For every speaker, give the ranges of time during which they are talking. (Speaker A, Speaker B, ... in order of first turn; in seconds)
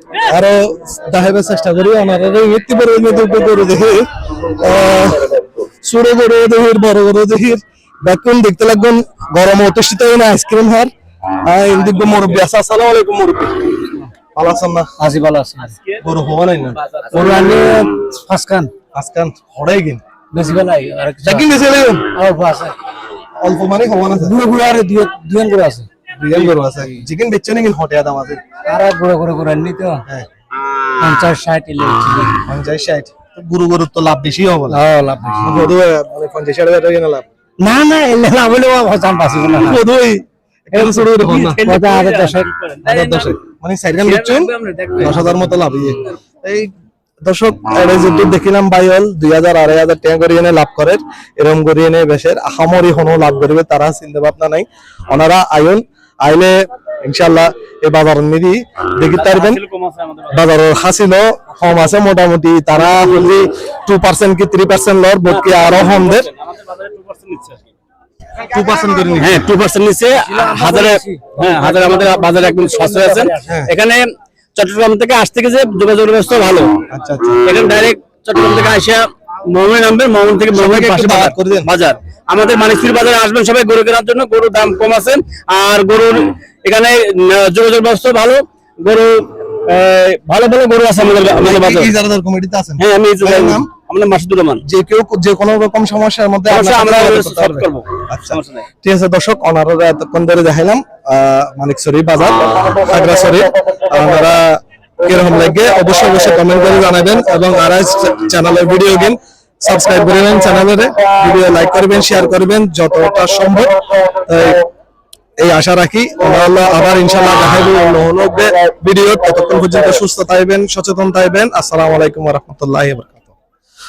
Speaker A: 0.2-10.9, 11.4-13.8, 14.3-14.9, 16.0-16.8, 18.9-20.0, 21.2-22.1, 23.4-24.4, 26.1-28.4, 32.5-34.8, 35.4-37.2, 39.6-41.7, 42.8-59.6, 60.3-66.3, 68.5-69.5, 73.5-73.7, 76.9-77.5, 80.5-81.7, 91.3-93.7, 94.6-114.6, 115.4-123.3
Speaker B: 15.0-15.8, 17.1-18.7, 20.3-21.5, 22.1-22.8, 24.2-25.9, 26.6-27.0, 28.7-30.1, 31.0-32.4, 34.7-35.7, 37.6-39.8, 40.8-43.2, 44.8-45.4, 69.2-69.6, 70.2-73.3
Speaker C: 41.5-43.3, 44.1-45.1, 59.1-60.3, 65.3-67.6, 69.2-76.7, 77.5-91.9, 92.8-94.6, 96.5-98.6